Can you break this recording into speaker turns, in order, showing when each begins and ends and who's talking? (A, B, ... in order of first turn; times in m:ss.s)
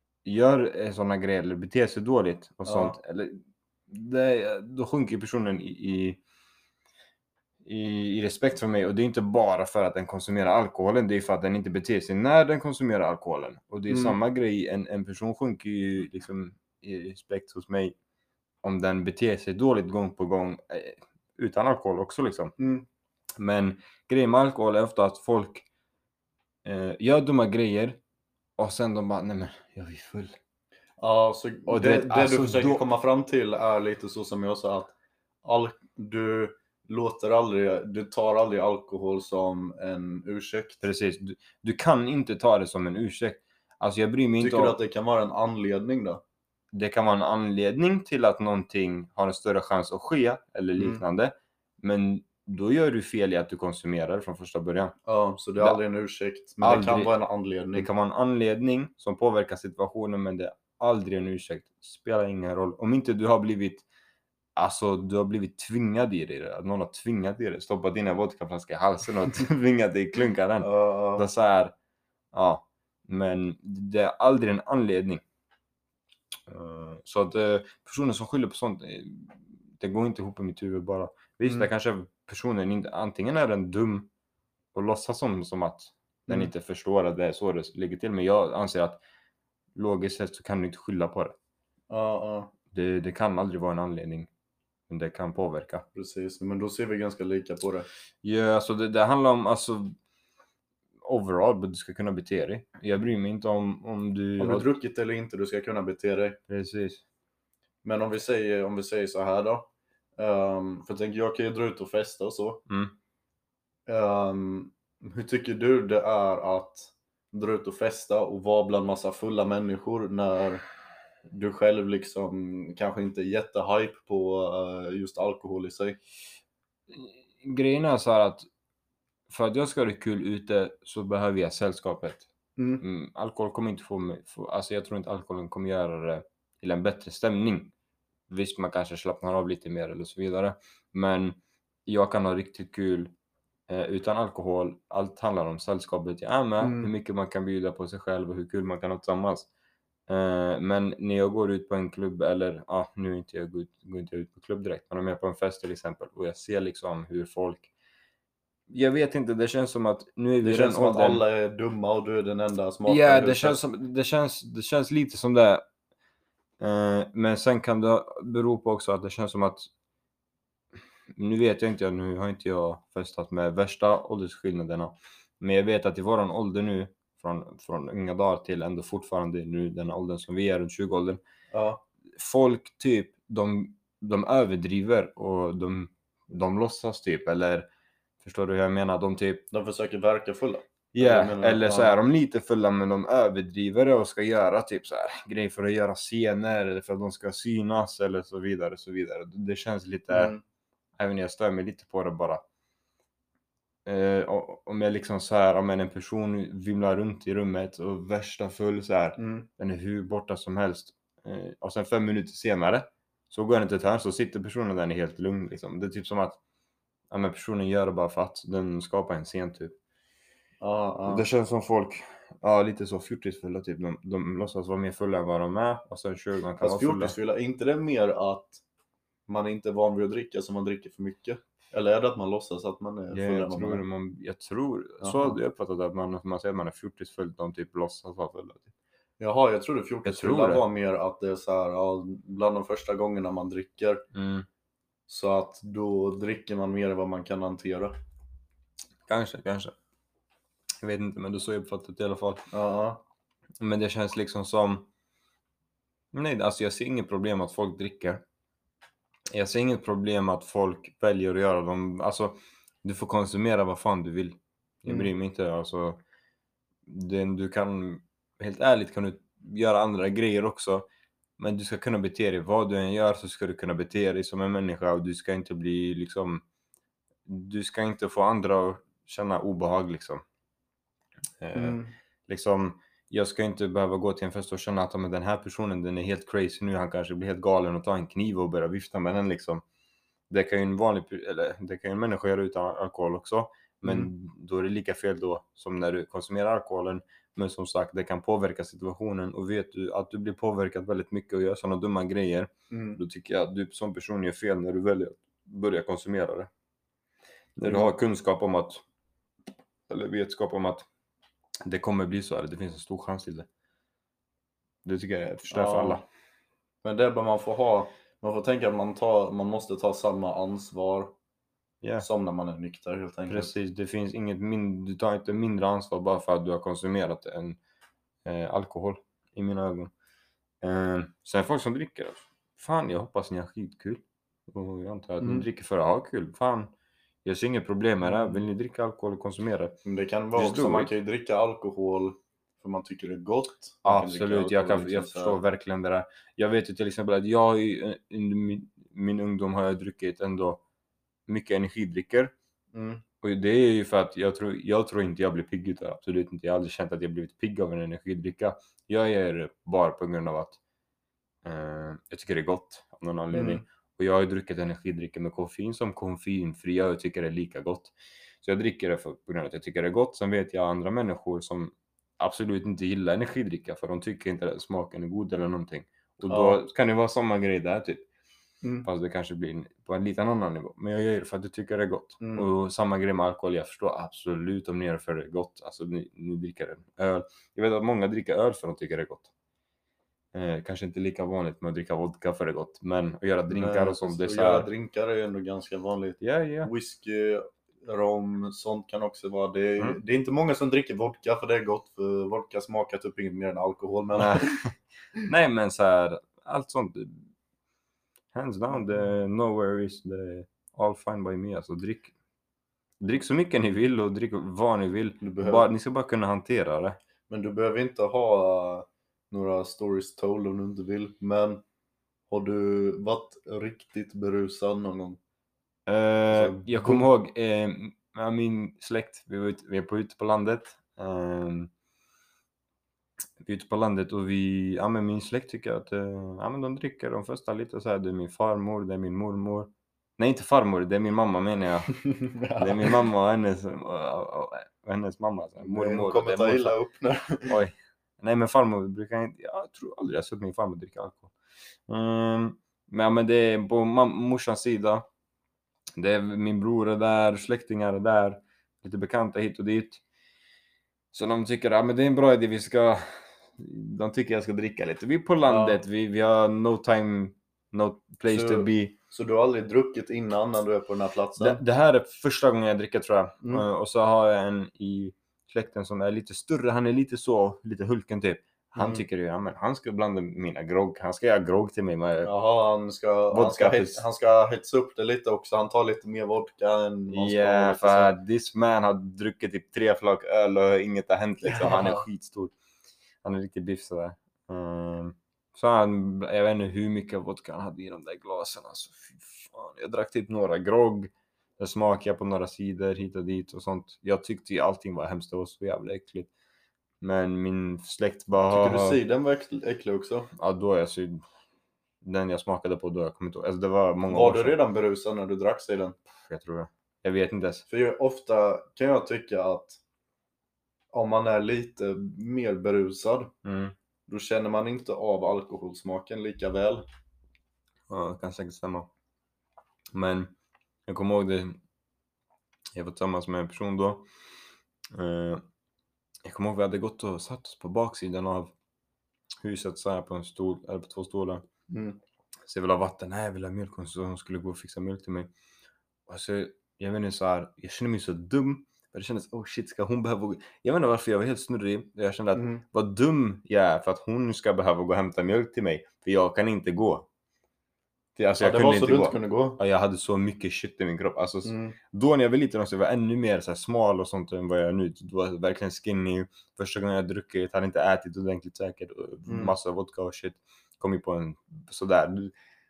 0:00.2-0:06.2 A
0:02.6-0:03.0 B
0:07.6-0:17.9 A
0:13.9-0:14.2 B
0:18.6-0:22.5 A
0:22.6-0:22.8 B
0:23.4-0:25.6 A
0:26.6-0:28.0 A
0:28.6-0:30.4 A
0:31.0-0:40.8 B
0:31.7-0:32.8 A
0:40.8-0:44.8 A
0:44.4-0:46.2 B
0:46.7-0:54.9 A
0:50.8-0:51.0 B
0:55.0-0:57.9 B
0:56.6-0:57.1 A
0:57.7-1:03.8 A
1:04.6-1:11.7 A
1:10.6-1:11.3 B
1:12.3-1:15.2 A
1:16.5-1:24.1 A
1:24.7-1:29.0 A
1:29.8-1:31.4 A
1:31.9-1:32.5 B
1:32.7-1:34.3 A
1:34.9-1:35.8 A
1:35.9-1:37.9 B
1:38.2-1:39.9 A
1:41.0-1:44.7 A
1:44.4-1:46.4 B
1:46.5-1:47.0 A
1:47.8-1:52.6 B
1:52.7-1:52.9 A
1:53.9-2:00.6 B
2:01.3-2:06.0 B
2:06.9-2:08.5 A
2:09.3-2:12.3 A
2:12.6-2:12.8 B
2:12.8-2:17.7 A
2:18.3-2:23.1 A
2:23.7-2:29.5 A
2:26.6-2:26.9 B
2:30.1-2:37.7 A
2:38.7-2:41.2 A
2:40.4-2:43.6 B
2:42.9-2:45.6 A
2:46.6-2:49.7 A
2:51.1-3:01.2 A
3:01.5-3:01.8 B
3:02.1-3:07.7 A
3:08.2-3:09.4 A
3:09.5-3:12.0 B
3:10.9-3:20.3 A
3:20.1-3:20.4 B
3:21.0-3:22.4 A
3:23.8-3:36.4 A
3:29.2-3:29.5 B
3:37.1-3:39.7 A
3:40.6-3:41.2 B
3:41.1-3:47.1 A
3:46.6-3:48.6 B
3:49.3-3:53.8 B
3:53.1-3:58.7 A
3:55.0-3:55.4 B
3:59.2-4:04.0 B
4:00.0-4:00.6 A
4:04.1-4:04.5 A
4:05.1-4:07.9 B
4:09.1-4:09.7 A
4:10.8-4:12.5 A
4:12.5-4:13.0 B
4:13.6-4:14.9 A
4:16.1-4:18.2 A
4:19.3-4:26.0 A
4:26.8-4:30.9 A
4:31.4-4:36.4 A
4:37.2-4:40.2 A
4:41.4-4:49.6 A
4:41.5-4:41.9 B
4:50.3-5:06.5 A
4:53.8-4:54.1 B
5:02.7-5:03.0 B
5:07.6-5:08.8 A
5:07.6-5:07.9 B
5:09.9-5:10.8 A
5:11.6-5:13.5 A
5:14.8-5:16.0 A
5:15.5-5:16.0 B
5:16.8-5:21.1 B
5:22.0-5:23.5 B
5:23.3-5:27.6 A
5:28.2-5:29.9 A
5:30.6-5:36.7 A
5:35.2-5:35.4 B
5:37.2-5:39.8 A
5:38.0-5:38.4 B
5:39.8-5:45.4 B
5:40.3-5:40.9 A
5:43.8-5:50.6 A
5:51.3-5:52.3 A
5:52.7-5:53.0 B
5:53.2-6:00.6 A
6:01.4-6:18.0 A
6:03.3-6:03.6 B
6:16.3-6:16.6 B
6:18.6-6:18.9 B
6:18.8-6:29.3 A
6:22.2-6:22.5 B
6:30.3-6:34.7 A
6:33.5-6:44.6 B
6:36.2-6:36.7 A
6:44.2-6:44.7 A
6:45.2-6:47.2 A
6:48.3-6:52.1 A
6:48.7-6:49.0 B
6:53.0-6:57.0 A
6:55.2-6:55.7 B
6:57.3-7:01.6 B
7:02.3-7:05.2 B
7:05.9-7:11.7 A
7:06.3-7:07.1 B
7:13.4-7:22.0 A
7:21.9-7:23.0 B
7:22.6-7:26.8 A
7:25.6-7:27.6 B
7:27.5-7:31.3 A
7:31.9-7:35.1 A
7:36.0-7:40.0 A
7:41.1-7:48.9 A
7:45.4-7:45.8 B
7:48.3-7:51.6 B
7:51.4-8:02.3 A
7:58.8-7:59.0 B
8:02.2-8:08.1 B
8:03.3-8:04.0 A
8:07.1-8:12.5 A
8:11.4-8:12.0 B
8:13.2-8:26.3 A
8:27.0-8:29.0 A
8:28.5-8:30.3 B
8:30.4-8:31.2 A
8:32.0-8:34.6 A
8:34.1-8:36.0 B
8:36.2-8:37.6 A
8:37.7-8:39.8 B
8:40.9-8:43.3 B
8:43.4-8:43.7 A
8:44.1-8:46.8 B
8:47.9-8:48.9 A
8:49.9-8:50.3 A
8:50.9-8:51.6 A
8:52.7-8:54.1 A
8:54.9-8:55.4 A
8:56.2-8:58.5 A
8:59.4-9:01.4 A
9:01.7-9:02.0 B
9:02.4-9:05.3 A
9:06.1-9:17.1 A
9:12.3-9:12.6 B
9:18.2-9:32.3 A
9:18.4-9:19.6 B
9:21.4-9:21.8 B
9:29.3-9:29.5 B